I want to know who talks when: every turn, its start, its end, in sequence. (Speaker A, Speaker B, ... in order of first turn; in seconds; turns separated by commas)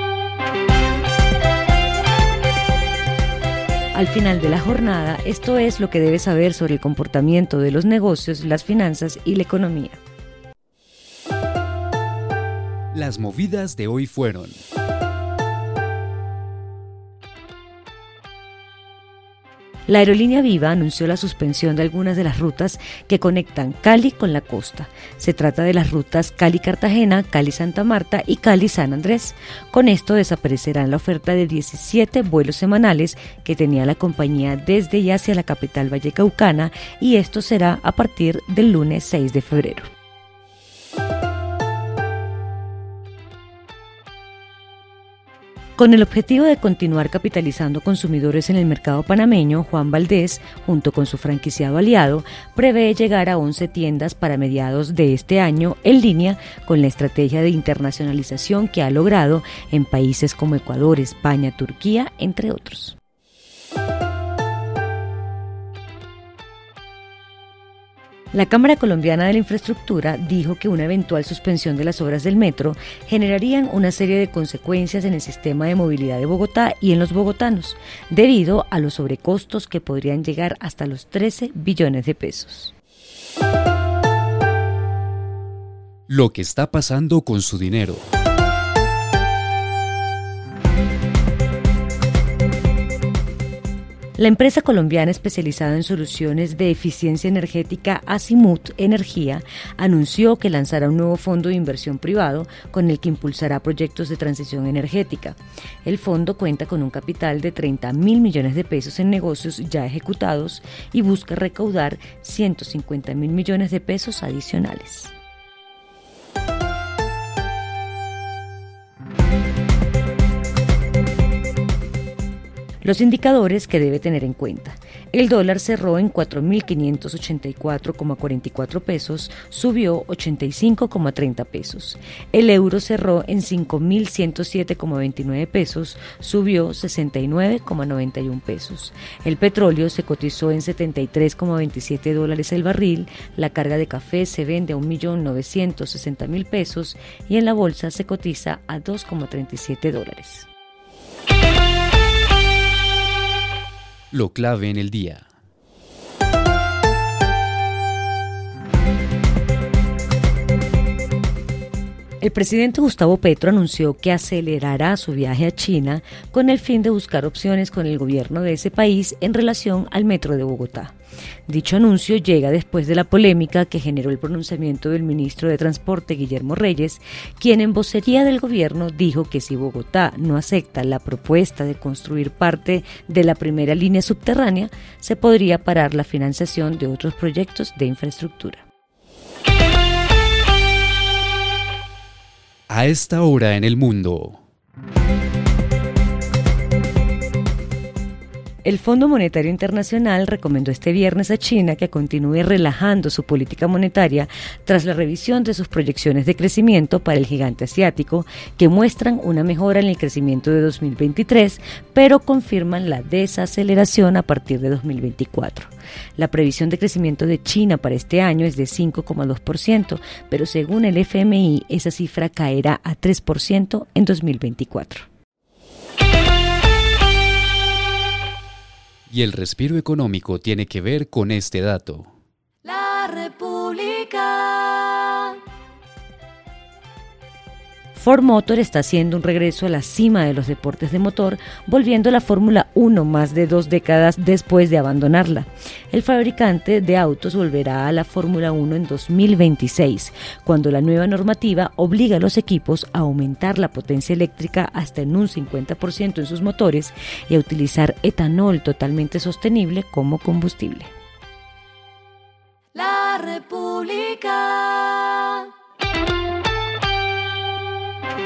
Speaker A: 3.9-10.0, Speaker B: 12.9-14.6, Speaker A: 19.9-39.9, Speaker A: 45.8-63.0, Speaker A: 68.3-82.7, Speaker B: 86.1-88.1, Speaker A: 94.2-115.1, Speaker A: 122.8-150.5, Speaker B: 154.1-155.3, Speaker A: 162.2-170.9, Speaker A: 171.5-188.7, Speaker B: 192.7-194.4, Speaker A: 198.6-225.1, Speaker B: 229.1-232.1, Speaker A: 232.7-235.3, Speaker A: 237.9-260.9, Speaker A: 262.8-265.5